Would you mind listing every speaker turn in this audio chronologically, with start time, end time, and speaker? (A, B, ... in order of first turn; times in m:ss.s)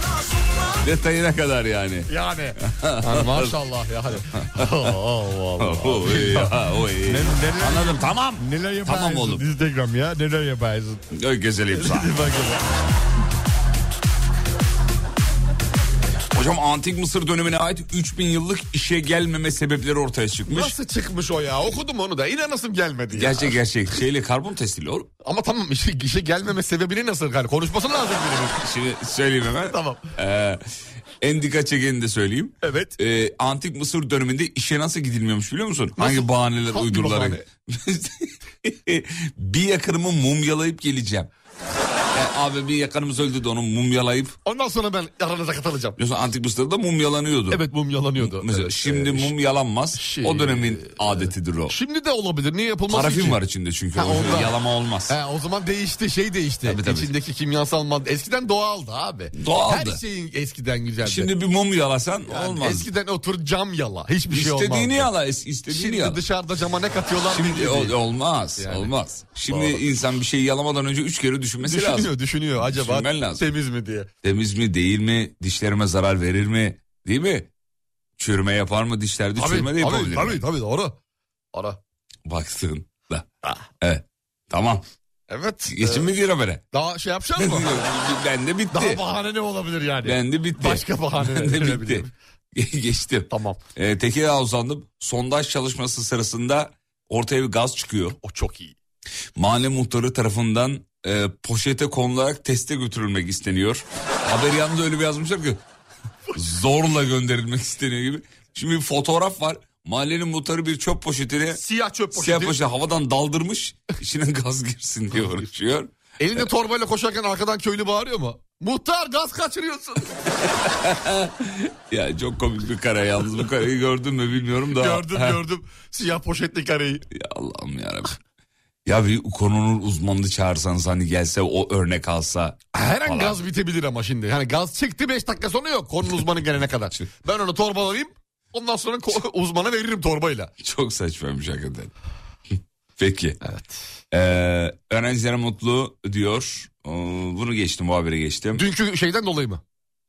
0:00.8-0:02.1 A
0:02.1-0:11.0 B
0:02.6-0:03.6 A
0:04.4-0:04.9 A
0:05.6-0:09.4 A
0:11.1-0:12.2 A
0:11.7-0:12.6 B
0:16.3-0:20.8 A
0:20.5-0:23.6 B
0:23.1-0:25.1 A
0:25.2-0:28.6 B
0:28.6-0:30.6 A
0:29.7-0:30.1 B
0:31.2-0:41.3 A
0:32.6-0:32.9 B
0:36.0-0:37.4 B
0:42.1-0:44.4 A
0:44.4-0:46.0 B
0:46.0-0:47.6 A
0:47.5-0:49.3 B
0:48.2-0:51.8 A
0:50.0-0:53.4 B
0:52.9-0:55.1 A
0:53.9-0:54.5 B
0:55.1-1:01.3 B
0:56.6-0:57.1 A
0:59.3-1:00.0 A
1:01.0-1:02.9 A
1:02.3-1:05.1 B
1:04.3-1:06.2 A
1:05.7-1:08.0 B
1:07.2-1:13.4 A
1:08.6-1:08.9 B
1:09.5-1:09.8 B
1:11.6-1:14.1 B
1:14.2-1:17.5 A
1:18.2-1:20.4 A
1:19.4-1:20.9 B
1:21.5-1:21.8 B
1:22.2-1:23.3 A
1:23.8-1:24.8 A
1:25.3-1:26.1 B
1:25.6-1:26.6 A
1:26.7-1:27.8 B
1:27.4-1:29.0 A
1:28.7-1:32.1 B
1:30.0-1:38.2 A
1:33.3-1:33.6 B
1:38.2-1:38.7 B
1:39.4-1:45.6 A
1:46.3-1:51.6 A
1:51.5-1:52.6 B
1:52.1-1:56.5 A
1:56.2-2:00.2 B
2:00.6-2:05.4 A
2:04.7-2:07.0 B
2:07.1-2:08.2 A
2:08.8-2:13.4 A
2:12.7-2:20.5 B
2:20.6-2:21.9 A
2:23.0-2:23.4 A
2:23.4-2:23.8 B
2:24.1-2:28.6 A
2:28.6-2:29.6 B